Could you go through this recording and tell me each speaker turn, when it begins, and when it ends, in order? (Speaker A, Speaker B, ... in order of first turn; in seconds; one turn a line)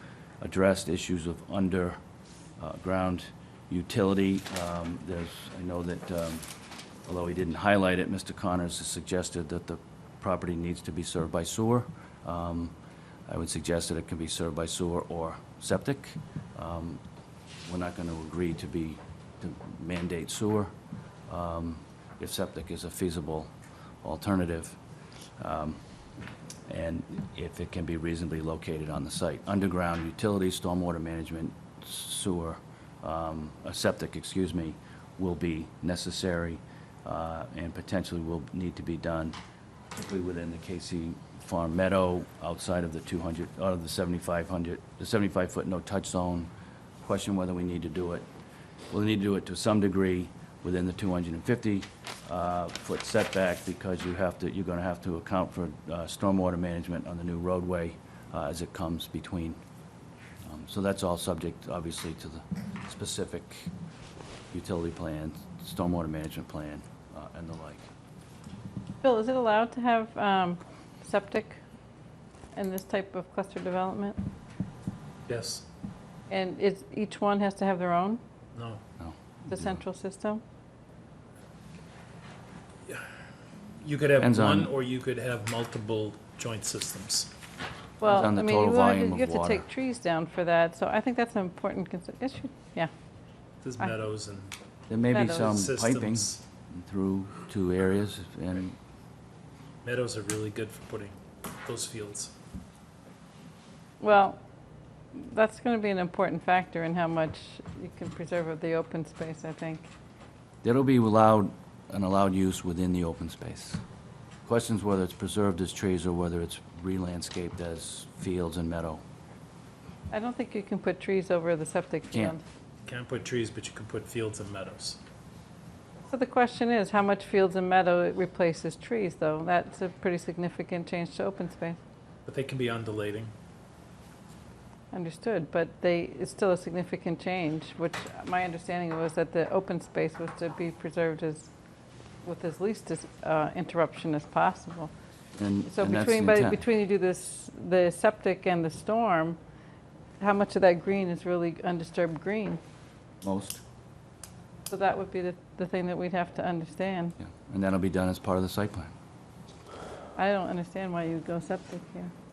Speaker A: 0.4-2.0
Speaker A: 2.6-6.4
Speaker A: 7.0-12.7
Speaker A: 13.3-17.0
Speaker A: 17.6-20.7
Speaker A: 21.3-23.5
Speaker A: 24.0-24.8
Speaker A: 25.4-25.8
Speaker A: 26.7-39.4
Speaker A: 39.9-46.5
Speaker A: 47.0-48.2
Speaker A: 48.9-59.6
Speaker A: 60.4-63.7
Speaker A: 64.5-67.9
Speaker B: 69.0-71.6
Speaker B: 72.5-74.2
Speaker C: 75.3-75.6
Speaker B: 76.3-78.2
Speaker C: 78.5-78.8
Speaker A: 79.0-79.8
Speaker B: 79.5-80.4
Speaker C: 83.8-87.3
Speaker A: 84.2-84.7
Speaker B: 88.0-92.9
Speaker A: 88.0-89.7
Speaker C: 93.6-94.5
Speaker A: 94.9-98.7
Speaker B: 95.1-95.5
Speaker C: 95.3-96.4
Speaker C: 99.8-102.3
Speaker B: 104.0-104.4
Speaker B: 105.1-109.9
Speaker A: 110.6-113.8
Speaker A: 114.4-119.0
Speaker B: 120.1-122.4
Speaker C: 122.8-125.0
Speaker B: 126.1-131.8
Speaker C: 132.2-133.3
Speaker B: 134.9-141.5
Speaker B: 142.2-144.9
Speaker A: 145.3-146.6
Speaker B: 145.7-149.4
Speaker B: 150.2-152.6
Speaker A: 153.2-153.6
Speaker B: 154.7-157.1
Speaker A: 157.2-158.9
Speaker B: 160.2-162.1